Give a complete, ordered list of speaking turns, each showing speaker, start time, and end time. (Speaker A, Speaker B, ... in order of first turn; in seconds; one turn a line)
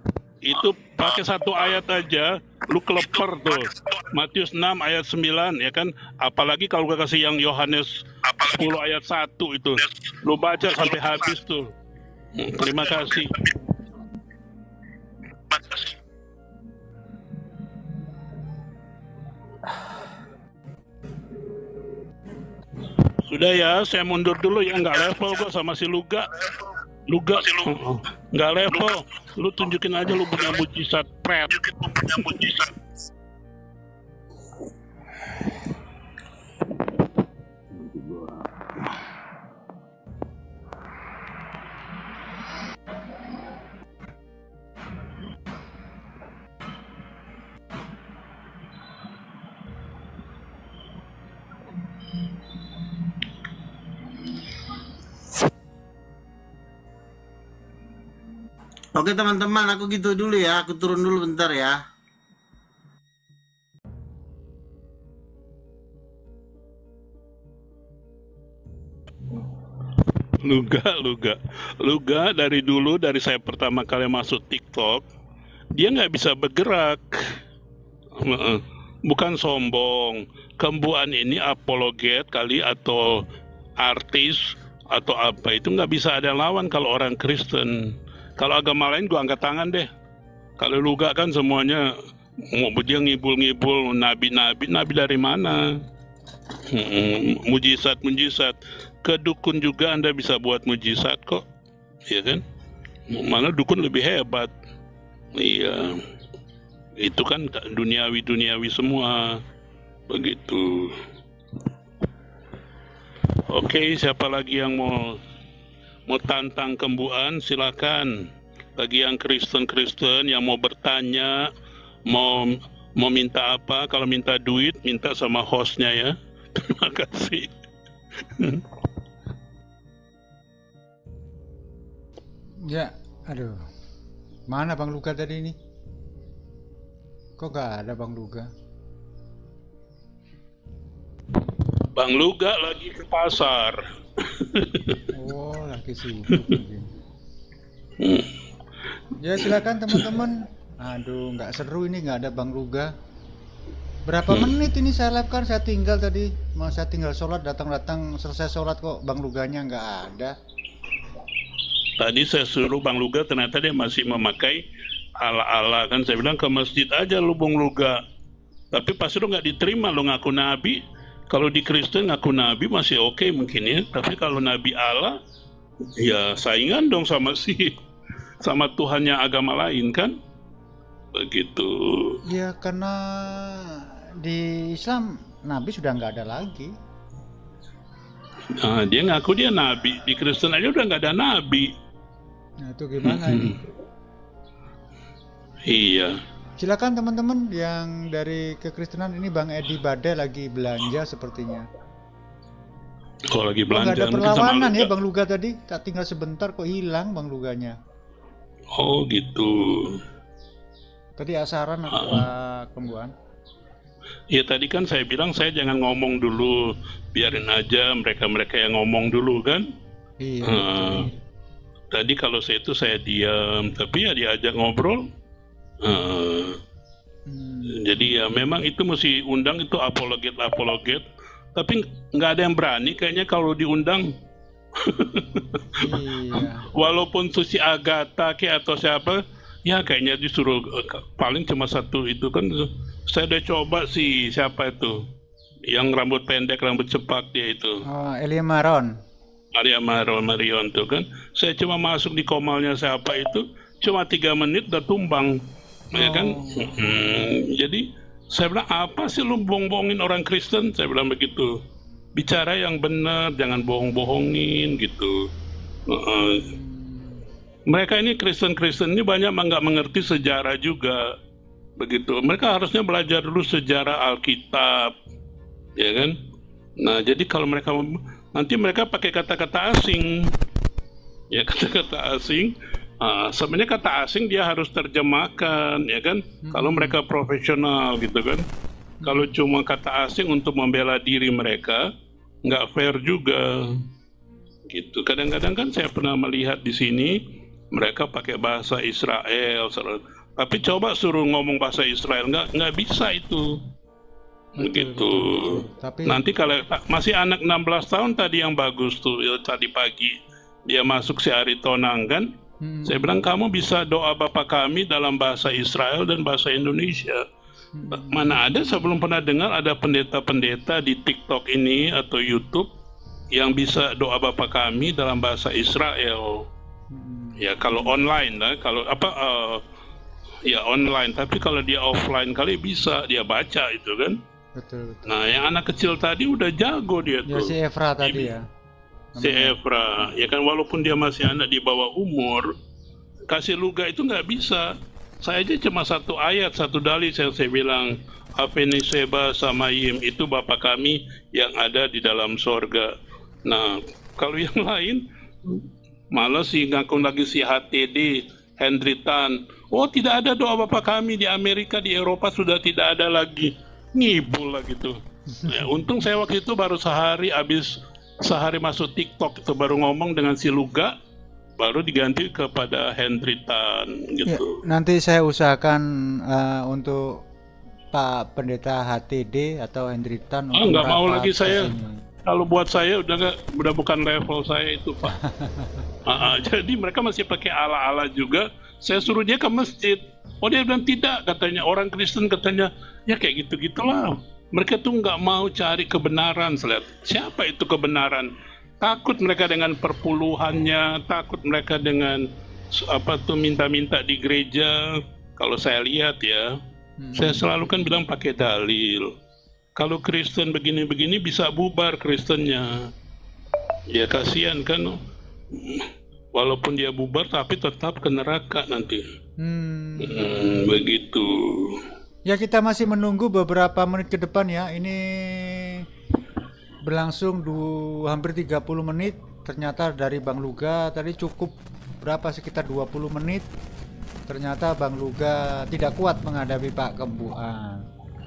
Speaker A: 0.4-11.7
Speaker A: 12.4-13.4
Speaker A: 15.5-15.9
Speaker A: 23.2-26.5
Speaker A: 27.1-32.7
Speaker B: 59.0-61.8
Speaker A: 70.4-75.0
Speaker A: 75.8-77.2
Speaker A: 78.2-83.2
Speaker A: 83.8-89.9
Speaker A: 90.6-91.9
Speaker A: 92.5-95.8
Speaker A: 96.7-101.4
Speaker A: 102.1-102.4
Speaker A: 103.1-104.5
Speaker A: 105.3-106.0
Speaker A: 107.0-109.4
Speaker A: 110.1-111.0
Speaker A: 113.5-115.2
Speaker A: 116.1-118.2
Speaker A: 118.8-121.5
Speaker A: 122.1-127.5
Speaker A: 128.3-128.7
Speaker C: 132.7-133.6
Speaker C: 134.5-135.6
Speaker C: 137.4-138.5
Speaker A: 141.9-145.0
Speaker C: 145.1-146.9
Speaker A: 148.0-148.3
Speaker C: 149.2-152.9
Speaker A: 149.4-150.0
Speaker C: 154.1-160.4
Speaker A: 154.3-154.6
Speaker A: 162.0-164.6
Speaker A: 165.2-168.0
Speaker A: 168.7-175.2
Speaker A: 176.0-177.8
Speaker A: 178.4-180.1
Speaker A: 181.2-182.2
Speaker C: 182.3-186.7
Speaker A: 188.6-191.7
Speaker C: 192.7-193.6
Speaker A: 193.0-193.6
Speaker A: 195.7-196.2
Speaker C: 196.6-201.7
Speaker A: 203.3-204.9
Speaker C: 203.7-207.8
Speaker A: 208.8-210.0
Speaker C: 211.2-213.1
Speaker A: 211.9-212.2
Speaker A: 214.3-219.7
Speaker C: 220.2-221.2
Speaker A: 220.5-221.1
Speaker A: 221.9-225.0
Speaker A: 225.8-226.6
Speaker C: 227.3-228.2
Speaker A: 227.7-234.1
Speaker A: 234.8-245.1
Speaker C: 235.8-236.7
Speaker A: 245.7-247.8
Speaker C: 247.8-248.9
Speaker A: 249.6-255.3
Speaker A: 255.9-261.5
Speaker C: 255.9-256.8
Speaker A: 262.2-265.2
Speaker A: 265.9-266.5
Speaker C: 266.3-267.2
Speaker A: 267.7-271.1
Speaker A: 271.8-274.9
Speaker A: 275.8-276.2
Speaker A: 276.8-280.3
Speaker A: 281.3-288.4
Speaker C: 286.4-287.0
Speaker C: 289.0-289.3
Speaker A: 289.0-291.9
Speaker A: 292.4-293.8
Speaker A: 294.7-297.2
Speaker A: 297.7-303.6
Speaker C: 304.6-306.2
Speaker A: 304.6-310.2
Speaker A: 310.7-312.3
Speaker C: 312.6-313.0
Speaker A: 312.9-317.3
Speaker C: 317.7-318.4
Speaker A: 317.9-322.7
Speaker A: 323.4-326.4
Speaker C: 326.9-327.9
Speaker A: 327.4-329.6
Speaker A: 330.4-334.2
Speaker C: 334.6-335.0
Speaker A: 335.1-338.3
Speaker C: 337.3-338.4
Speaker C: 339.2-339.6
Speaker A: 339.2-342.5
Speaker A: 343.3-352.9
Speaker A: 353.5-370.9
Speaker C: 365.3-365.6
Speaker A: 371.6-374.6
Speaker C: 374.3-377.0
Speaker C: 377.9-382.0
Speaker A: 380.6-381.7
Speaker A: 382.3-385.2
Speaker C: 385.1-385.9
Speaker A: 386.1-398.3
Speaker A: 398.8-406.5
Speaker C: 407.0-407.9
Speaker A: 407.2-409.1
Speaker A: 409.8-412.9
Speaker A: 413.9-415.0
Speaker A: 415.5-419.0
Speaker C: 419.4-420.6
Speaker A: 420.0-421.8
Speaker C: 422.3-425.8
Speaker C: 426.8-433.4
Speaker C: 434.3-437.8